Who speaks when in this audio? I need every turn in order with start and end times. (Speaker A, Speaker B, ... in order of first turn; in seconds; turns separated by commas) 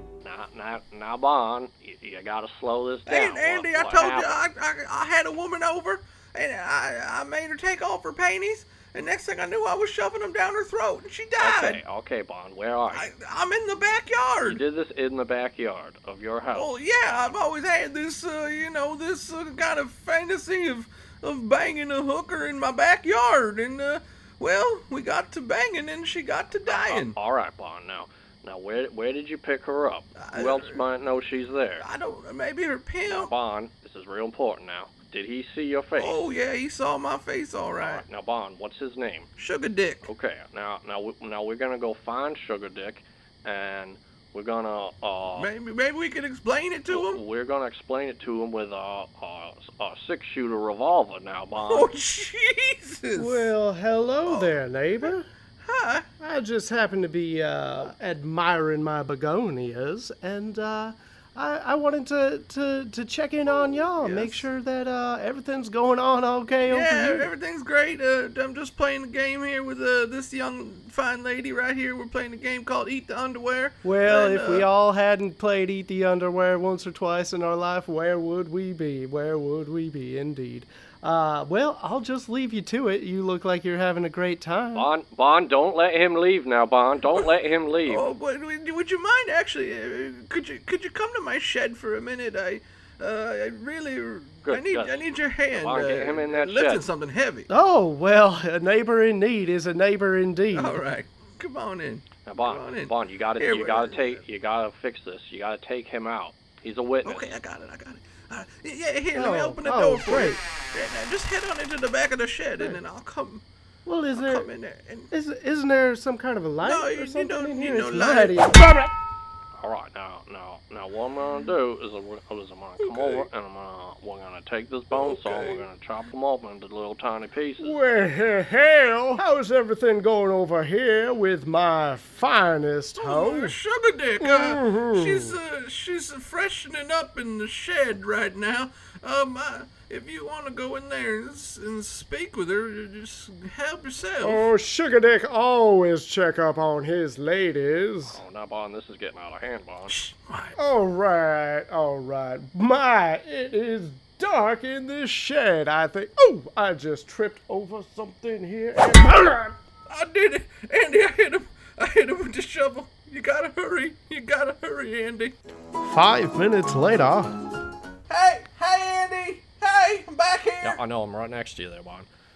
Speaker A: 0.2-4.4, Speaker B: 3.0-11.8, Speaker A: 11.4-13.1, Speaker B: 12.9-14.6, Speaker A: 14.4-17.4, Speaker B: 16.5-27.1, Speaker A: 26.6-31.8, Speaker B: 30.1-30.8, Speaker B: 31.8-33.3, Speaker A: 33.0-36.2, Speaker B: 36.0-38.0, Speaker A: 37.8-39.3, Speaker B: 39.4-40.1, Speaker A: 40.0-45.5, Speaker B: 45.4-47.2, Speaker A: 46.9-51.9, Speaker B: 51.5-53.5, Speaker C: 53.1-55.2, Speaker B: 54.2-56.0, Speaker C: 56.2-67.3, Speaker B: 63.5-64.5, Speaker B: 66.6-74.7, Speaker C: 73.8-84.9, Speaker A: 84.7-88.1, Speaker B: 87.9-97.5, Speaker A: 94.5-96.8, Speaker C: 97.5-100.8, Speaker B: 100.5-104.2, Speaker A: 102.2-107.4, Speaker B: 107.0-113.4, Speaker C: 109.2-110.4, Speaker C: 113.8-114.5, Speaker B: 114.1-115.1, Speaker C: 115.1-118.9, Speaker B: 116.6-118.4, Speaker A: 119.6-127.8, Speaker C: 122.8-123.2, Speaker B: 124.9-125.6, Speaker C: 127.6-133.6, Speaker B: 133.0-144.5, Speaker C: 134.2-135.4, Speaker C: 144.2-148.2, Speaker A: 148.1-149.9, Speaker B: 149.9-150.5, Speaker C: 150.6-159.5, Speaker B: 159.9-165.3, Speaker C: 165.8-167.3, Speaker B: 168.1-170.8, Speaker A: 170.6-172.1